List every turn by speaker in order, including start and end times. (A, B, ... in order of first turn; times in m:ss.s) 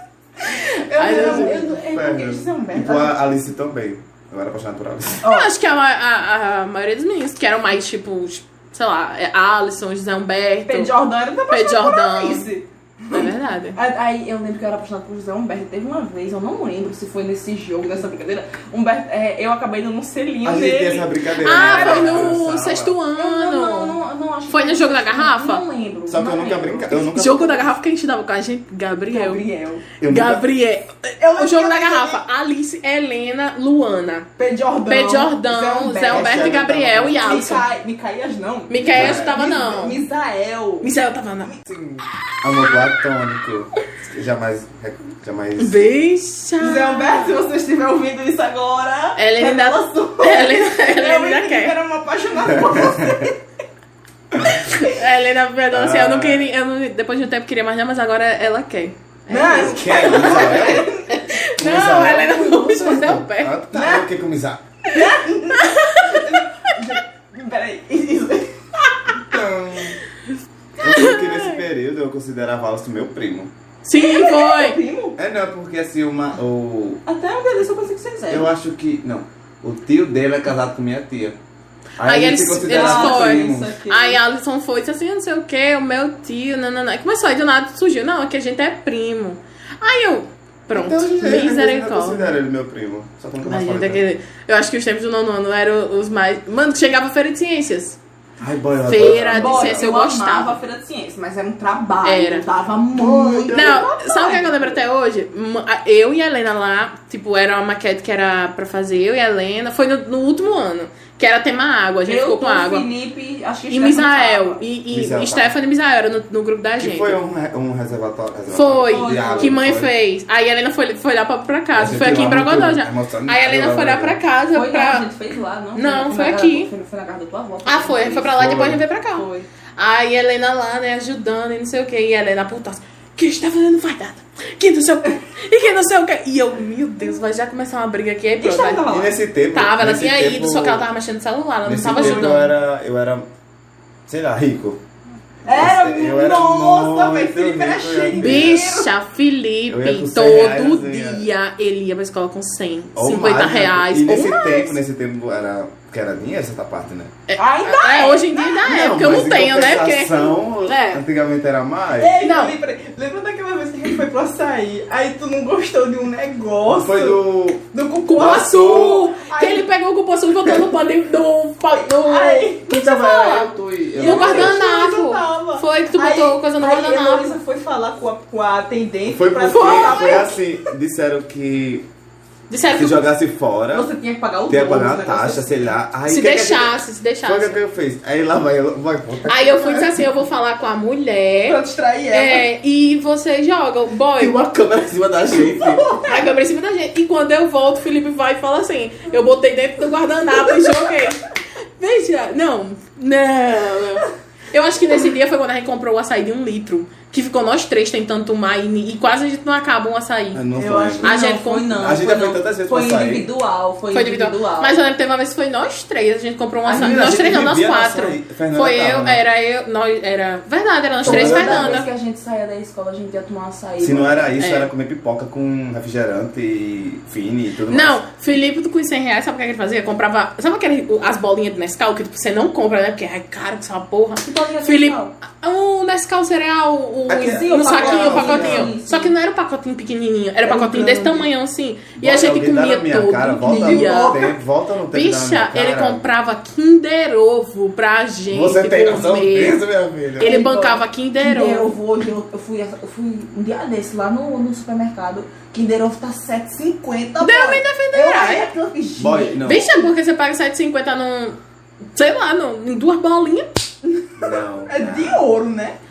0:00.4-0:03.2 A
0:00.9-0:05.2 B
0:00.9-0:01.6 C
0:05.2-0:05.5 A
0:05.2-0:10.9 C
0:10.7-0:22.3 A
0:11.5-0:12.5 C
0:13.1-0:13.8 C
0:20.4-0:22.9 B
0:21.4-0:24.0 C
0:23.2-0:26.9 A
0:24.5-0:25.6 C
0:26.1-0:27.7 B
0:26.9-0:29.4 C
0:29.1-0:29.8 A
0:30.0-0:30.4 B
0:30.0-0:34.3 C
0:31.2-0:32.2 A
0:34.4-0:40.9 A
0:34.8-0:37.6 C
0:36.1-0:37.4 B
0:38.7-0:40.0 C
0:38.8-0:39.4 B
0:40.8-0:41.5 C
0:41.6-0:45.8 B
0:45.6-0:47.4 C
0:46.6-0:53.4 A
0:49.2-0:51.8 C
0:52.5-0:53.3 B
0:54.4-1:03.5 C
0:55.7-0:56.5 B
0:59.3-1:01.1 A
0:59.6-1:00.9 B
1:01.6-1:04.6 B
1:03.7-1:04.0 A
1:04.9-1:06.3 C
1:04.9-1:09.1 A
1:09.2-1:10.0 B
1:10.8-1:13.5 B
1:10.8-1:11.6 C
1:13.8-1:14.8 C
1:13.9-1:15.2 A
1:15.2-1:17.0 B
1:17.0-1:18.5 A
1:18.3-1:21.4 B
1:22.0-1:23.7 B
1:22.0-1:32.3 C
1:22.6-1:24.2 A
1:30.7-1:34.0 B
1:33.4-1:38.0 C
1:38.4-1:39.8 B
1:38.8-1:40.6 C
1:39.3-1:44.8 A
1:42.0-1:42.5 C
1:42.9-1:43.8 B
1:43.5-1:52.9 C
1:52.0-1:54.6 A
1:53.7-1:57.2 C
1:54.9-1:55.5 B
1:56.8-1:59.9 B
1:58.5-2:05.1 C
1:58.8-1:59.6 A
2:01.7-2:04.2 B
2:04.5-2:09.4 A
2:05.7-2:06.7 C
2:07.6-2:09.2 C
2:08.4-2:08.8 B
2:09.8-2:18.8 C
2:18.4-2:19.2 A
2:18.9-2:20.8 B
2:19.5-2:22.5 C
2:21.6-2:23.2 B
2:21.9-2:22.3 A
2:24.1-2:24.8 B
2:25.4-2:28.9 A
2:25.5-2:28.7 B
2:28.2-2:34.8 C
2:29.7-2:31.3 B
2:33.0-2:37.1 B
2:37.3-2:41.0 C
2:37.4-2:38.7 A
2:38.6-2:42.2 B
2:42.0-2:49.7 A
2:42.2-2:42.6 C
2:46.7-2:47.6 B
2:48.0-2:57.4 C
2:48.2-2:49.0 B
2:51.7-2:52.7 A
2:52.7-2:54.6 B
2:54.0-3:00.4 A
2:59.1-3:01.8 B
2:59.5-3:00.3 C
3:02.5-3:03.0 C
3:02.7-3:03.9 B
3:03.7-3:05.7 A
3:04.5-3:09.9 B
3:06.1-3:07.6 C
3:09.3-3:11.6 C
3:11.4-3:12.4 A
3:12.1-3:14.4 C
3:14.2-3:15.9 B
3:15.4-3:16.2 A
3:16.0-3:21.3 C
3:20.5-3:21.1 A
3:21.8-3:30.4 C
3:30.3-3:31.1 B
3:30.6-3:34.8 A
3:31.0-3:31.8 C
3:31.8-3:33.3 B
3:33.9-3:41.9 C
3:36.6-3:39.2 B
3:41.0-3:41.9 B
3:41.0-3:44.3 A
3:43.8-3:48.0 B
3:44.4-3:44.7 C
3:47.7-4:04.2 C
3:54.2-3:55.1 A
3:57.1-3:58.7 B
3:57.2-3:59.1 A
4:00.4-4:01.3 A
4:02.0-4:06.0 B
4:03.4-4:04.3 A
4:04.9-4:09.6 C
4:08.3-4:10.4 B
4:10.2-4:11.7 C
4:10.2-4:19.6 A
4:17.2-4:18.5 C
4:19.0-4:19.7 B
4:19.4-4:21.4 C
4:21.9-4:23.5 C
4:23.8-4:25.8 A
4:24.2-4:25.2 B